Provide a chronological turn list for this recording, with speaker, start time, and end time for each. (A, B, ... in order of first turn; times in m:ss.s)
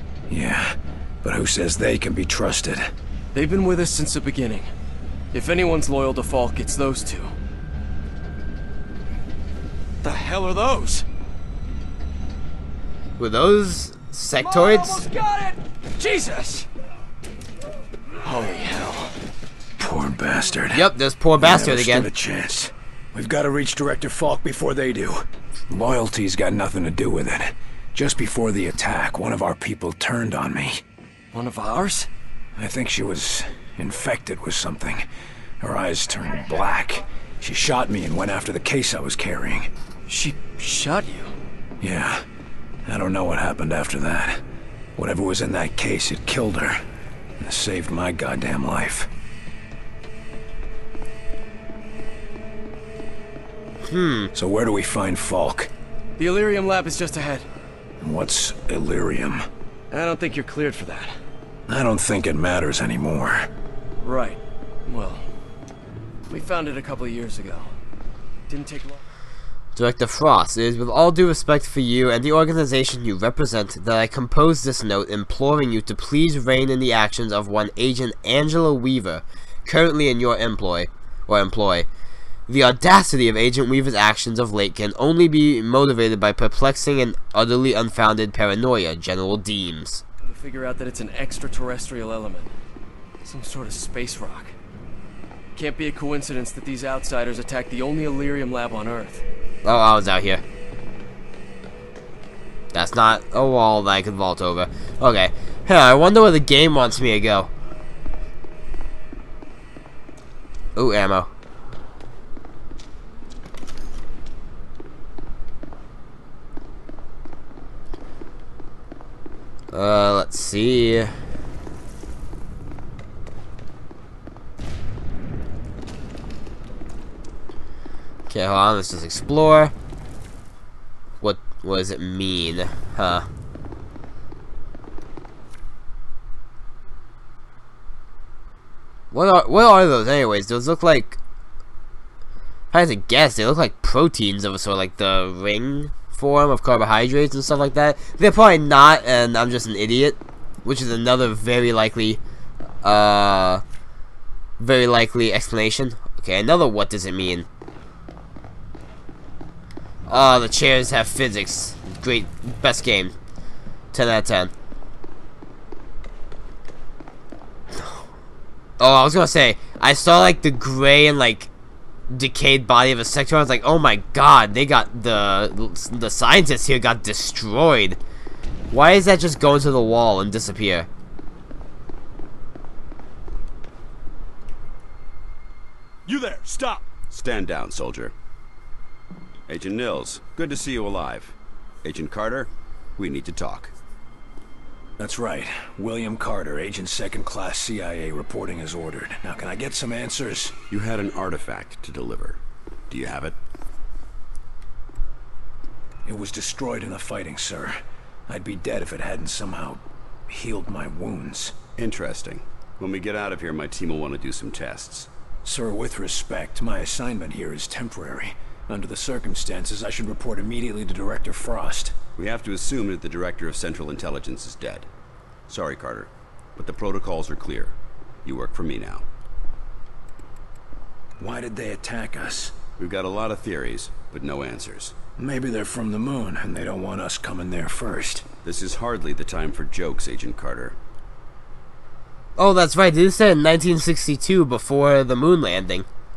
0:00.3-0:02.9 A
0:03.3-0:04.7 B
0:05.3-0:07.3 B
0:10.0-0:11.0 B
0:13.2-0:15.1 C
0:14.3-0:16.7 B
0:18.2-0:19.1 B
0:19.8-0:20.9 A
0:20.7-0:22.1 C
0:21.4-0:30.8 A
0:31.3-0:32.1 B
0:32.6-0:35.1 A
0:35.6-0:39.7 A
0:40.1-0:41.3 B
0:41.8-0:42.2 A
0:42.9-0:44.4 A
0:45.0-0:46.8 A
0:47.4-0:49.1 A
0:53.8-0:54.3 C
0:54.4-0:55.7 A
0:56.2-0:57.5 B
0:58.0-0:59.5 A
0:59.9-1:01.2 B
1:01.7-1:03.5 A
1:04.0-1:05.2 B
1:06.3-1:07.7 B
1:08.5-1:09.0 B
1:09.8-1:21.9 C
1:22.5-1:30.0 C
1:30.2-1:32.5 B
1:33.2-1:34.6 B
1:35.6-1:39.2 B
1:39.6-1:40.4 C
1:42.7-1:47.5 C
1:50.8-1:51.3 C
1:59.7-2:01.1 C
2:08.3-2:09.7 C
2:11.2-2:13.3 C
2:19.1-2:21.2 C
2:22.7-2:32.2 C
2:32.8-2:33.6 C
2:34.6-2:37.5 C
2:40.1-2:43.2 C
2:43.9-2:44.5 C
2:48.8-2:51.5 C
2:52.1-2:58.0 C
2:58.7-3:00.9 C
3:07.1-3:08.1 D
3:09.5-3:13.7 D
3:15.0-3:20.6 A
3:20.7-3:23.4 D
3:26.0-3:31.6 A
3:31.8-3:35.1 D
3:35.4-3:42.0 A
3:42.2-3:44.9 D
3:45.5-3:49.1 D
3:51.2-3:52.5 A
3:52.8-3:55.0 D
3:55.2-3:58.3 A
3:58.4-4:00.8 D
4:02.4-4:05.9 C